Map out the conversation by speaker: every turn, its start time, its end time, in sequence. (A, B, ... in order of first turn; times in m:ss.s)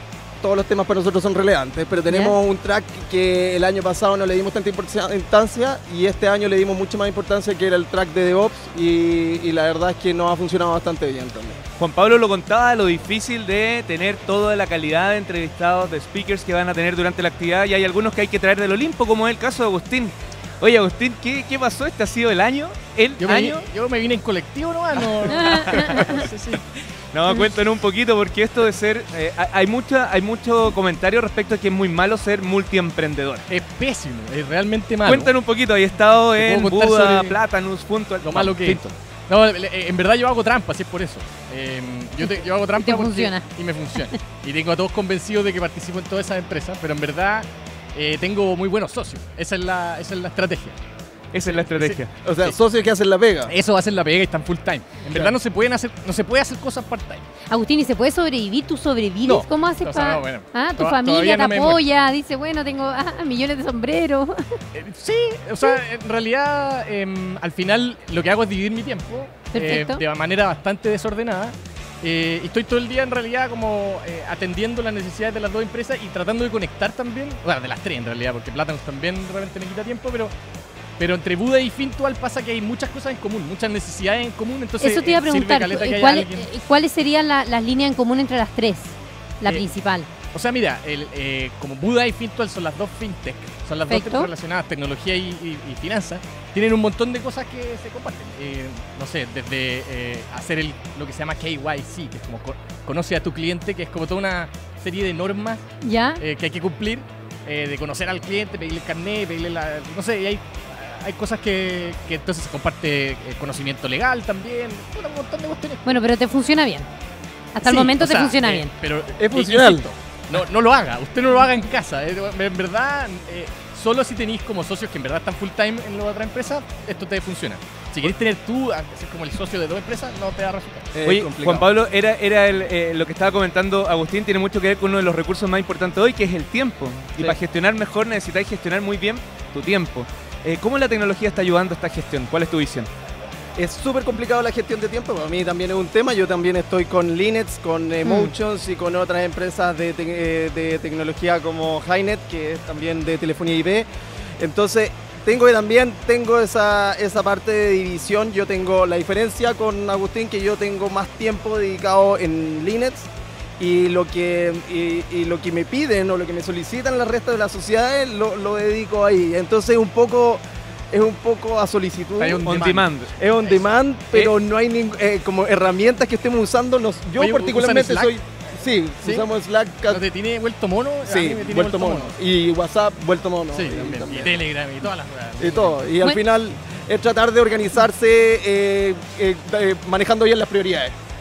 0:00.4-0:11.6 A
0:02.1-0:02.4 B
0:11.8-0:23.7 C
0:23.2-0:26.6 D
0:25.3-0:26.2 B
0:25.5-0:26.1 C
0:27.1-0:33.5 C
0:33.5-0:35.3 D
0:35.0-0:38.9 C
0:36.4-0:37.4 D
0:38.2-0:50.8 D
0:42.2-0:44.0 B
0:51.3-0:52.1 C
0:51.4-0:52.6 D
0:52.2-0:53.5 A
0:53.4-0:57.2 D
0:57.5-1:04.6 B
0:59.2-1:01.8 D
1:04.7-1:20.3 D
1:09.5-1:10.0 B
1:21.0-1:26.5 D
1:24.8-1:30.1 B
1:30.3-1:45.6 D
1:33.9-1:34.3 B
1:45.8-1:46.2 B
1:46.2-1:55.8 D
1:55.8-1:56.9 B
1:57.6-1:58.7 B
1:57.7-2:11.0 D
1:59.2-1:59.9 A
2:10.9-2:11.6 A
2:11.0-2:22.9 C
2:23.6-2:33.9 A
2:28.0-2:28.3 B
2:34.4-3:00.1 A
2:52.2-2:52.9 D
2:52.4-2:53.1 C
2:53.4-2:53.7 D
2:57.1-2:58.1 D
2:59.0-2:59.3 D
2:59.8-3:02.2 D
3:01.1-3:04.4 A
3:03.5-3:05.9 D
3:05.4-3:10.9 A